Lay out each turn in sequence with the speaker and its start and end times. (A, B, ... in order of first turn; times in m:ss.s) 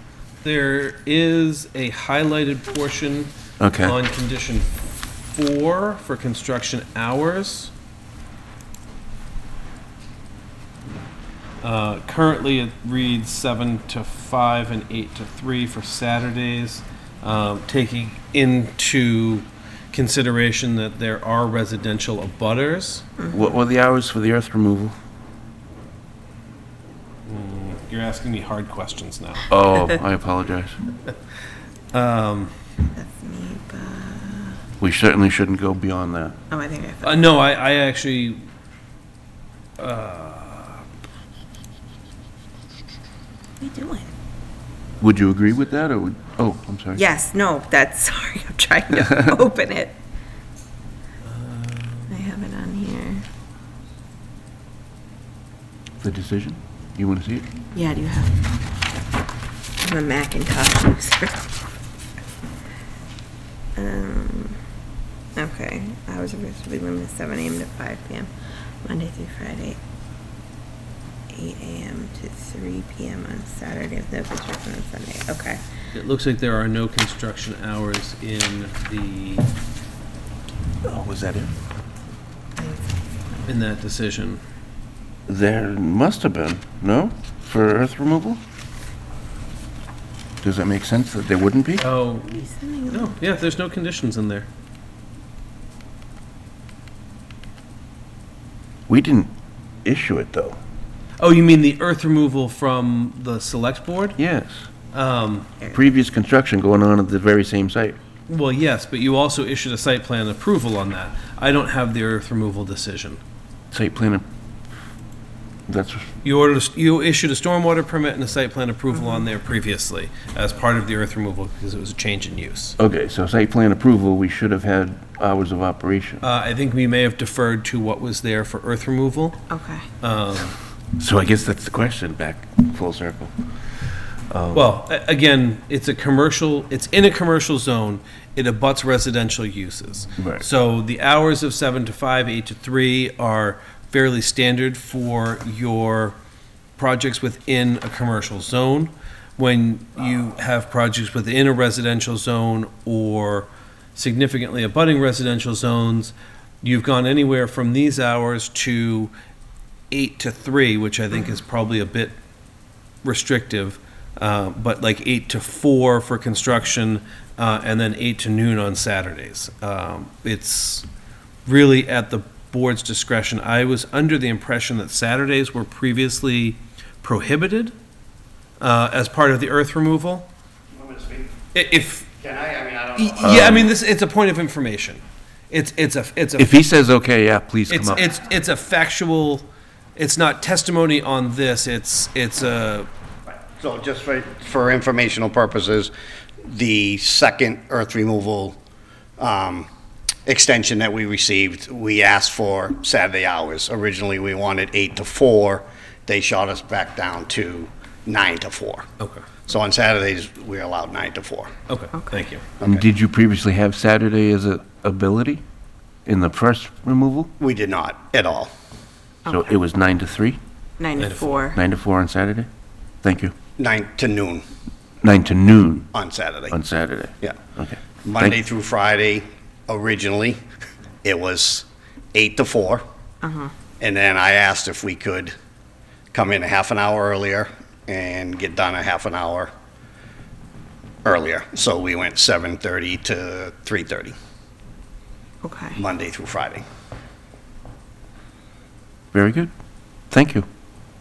0:00.4-0:04.7 A
0:03.6-0:04.0 B
0:05.3-0:07.7 A
0:11.6-0:23.1 A
0:23.2-0:23.4 C
0:23.3-0:25.0 B
0:27.2-0:29.5 A
0:29.5-0:30.8 B
0:31.9-0:32.5 A
0:32.8-0:34.6 C
0:34.8-0:36.4 B
0:36.5-0:37.2 C
0:37.0-0:38.5 A
0:39.8-0:40.8 A
0:43.6-0:44.1 C
0:45.0-0:47.0 B
0:46.9-0:50.0 C
0:51.3-0:52.2 A
0:52.1-0:53.2 C
0:56.0-0:57.5 B
0:57.7-0:58.4 C
0:59.8-1:01.5 C
1:03.8-1:04.6 C
1:05.4-1:08.3 C
1:08.8-1:09.8 C
1:11.3-1:15.6 C
1:15.9-1:19.5 A
1:20.8-1:21.5 B
1:23.4-1:24.4 A
1:25.3-1:28.4 B
1:30.4-1:31.8 B
1:31.8-1:34.5 A
1:32.3-1:33.1 C
1:38.9-1:39.3 B
1:39.8-1:40.6 B
1:41.2-1:44.2 A
1:44.2-1:44.7 B
1:44.9-1:45.5 A
1:45.7-1:48.0 B
1:48.3-1:53.2 A
1:53.7-1:54.2 B
1:55.7-1:56.1 B
1:56.2-2:02.8 A
2:02.8-2:06.2 B
2:06.2-2:09.4 A
2:09.5-2:09.8 C
2:10.0-2:10.5 A
2:11.0-2:13.3 B
2:14.3-2:14.8 B
2:14.5-2:26.2 A
2:20.2-2:20.4 B
2:26.8-2:39.1 A
2:39.9-2:42.2 A
2:43.0-2:50.8 A
2:51.4-2:57.7 A
2:58.6-3:00.3 A
3:00.7-3:01.4 D
3:01.5-3:02.1 A
3:02.2-3:03.6 D
3:03.0-3:06.6 A
3:03.2-3:03.7 B
3:06.4-3:08.1 B
3:07.7-3:12.9 A
3:13.6-3:15.9 D
3:16.4-3:18.6 D
3:19.2-3:19.7 D
3:20.2-3:28.8 D
3:29.0-3:29.2 A
3:29.5-3:31.5 D
3:31.7-3:32.4 A
3:31.9-3:32.2 C
3:32.6-3:32.8 D
3:32.6-3:35.4 B
3:36.0-3:37.3 B
3:37.4-3:38.5 D
3:39.2-3:39.5 C
3:39.3-3:40.4 B
3:40.8-3:41.6 C
3:41.0-3:41.4 A
3:41.5-3:42.5 B
3:43.0-3:43.3 B
3:43.6-3:44.4 D
3:45.0-3:45.9 B
3:45.9-3:46.5 D
3:46.5-3:48.4 B
3:48.0-3:50.4 D
3:51.0-3:52.8 D
3:53.2-3:53.5 C
3:53.8-3:55.3 D
3:56.1-3:59.5 D
4:01.0-4:04.1 D
4:05.4-4:05.8 C
4:05.7-4:06.6 D
4:09.1-4:09.5 B
4:10.1-4:10.5 B